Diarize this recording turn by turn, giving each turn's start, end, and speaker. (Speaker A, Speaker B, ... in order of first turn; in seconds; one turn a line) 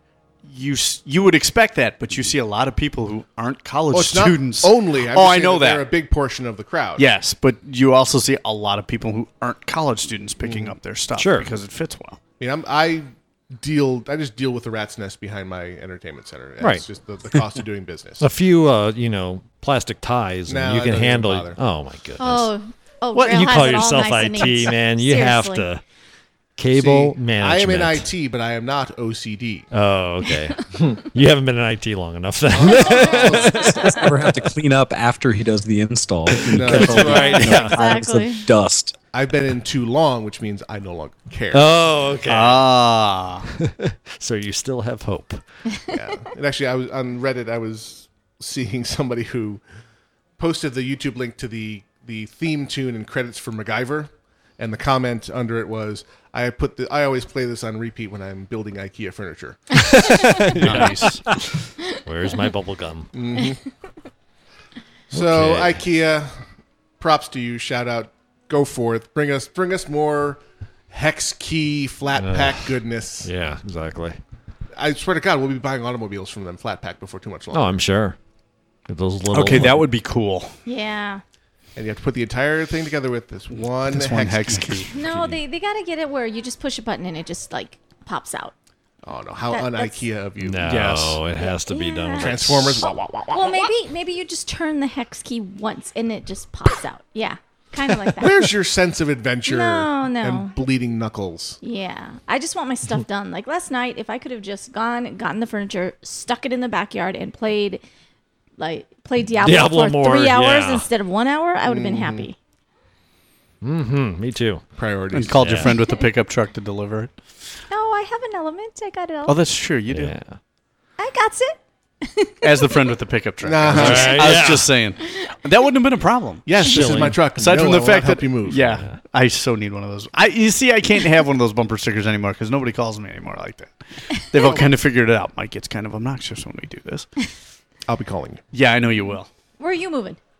Speaker A: 0.4-5.8
Speaker B: 3.9-7.1
Speaker A: 7.0-12.2
Speaker B: 10.4-10.8
Speaker C: 11.1-11.5
Speaker B: 12.4-18.2
Speaker C: 18.2-22.5
Speaker B: 20.5-21.6
Speaker D: 22.2-25.7
Speaker C: 23.1-25.8
Speaker C: 26.6-28.0
Speaker B: 26.7-29.7
Speaker C: 29.7-34.0
Speaker B: 32.5-34.0
Speaker D: 32.9-33.8
Speaker E: 33.7-39.0
Speaker C: 36.5-37.8
Speaker B: 36.5-37.6
Speaker D: 37.0-38.5
Speaker B: 39.1-41.9
Speaker C: 41.5-42.6
Speaker A: 42.3-43.5
Speaker C: 43.6-45.4
Speaker B: 45.9-49.6
Speaker B: 50.4-60.9
Speaker C: 59.8-61.2
Speaker A: 60.6-61.3
Speaker C: 62.0-63.1
Speaker B: 63.1-63.6
Speaker B: 65.1-66.4
Speaker C: 65.1-65.8
Speaker B: 67.0-73.3
Speaker C: 72.2-72.7
Speaker C: 73.2-74.2
Speaker B: 74.7-77.8
Speaker C: 77.5-78.2
Speaker C: 78.9-79.8
Speaker A: 79.3-80.5
Speaker D: 80.7-81.2
Speaker B: 81.8-85.1
Speaker A: 83.8-84.9
Speaker D: 84.9-88.5
Speaker B: 89.0-90.7
Speaker D: 89.5-90.1
Speaker C: 90.4-92.9
Speaker A: 90.7-91.2
Speaker D: 91.4-92.4
Speaker B: 92.2-93.7
Speaker D: 93.3-98.5
Speaker B: 98.0-101.6
Speaker D: 99.5-100.5
Speaker D: 101.6-107.8
Speaker D: 108.6-112.3
Speaker C: 109.4-110.8
Speaker B: 111.7-112.3
Speaker C: 113.6-114.6
Speaker B: 114.8-115.6
Speaker A: 115.1-117.1
Speaker C: 115.4-115.7
Speaker D: 117.7-119.4
Speaker A: 119.2-120.1
Speaker C: 119.9-120.4
Speaker D: 121.0-122.7
Speaker A: 122.4-137.1
Speaker B: 123.4-124.4
Speaker C: 123.7-124.7
Speaker B: 126.4-128.8
Speaker C: 126.6-127.2
Speaker C: 128.7-129.0
Speaker D: 134.3-134.7
Speaker B: 137.9-138.4
Speaker A: 138.5-139.3
Speaker D: 139.1-140.2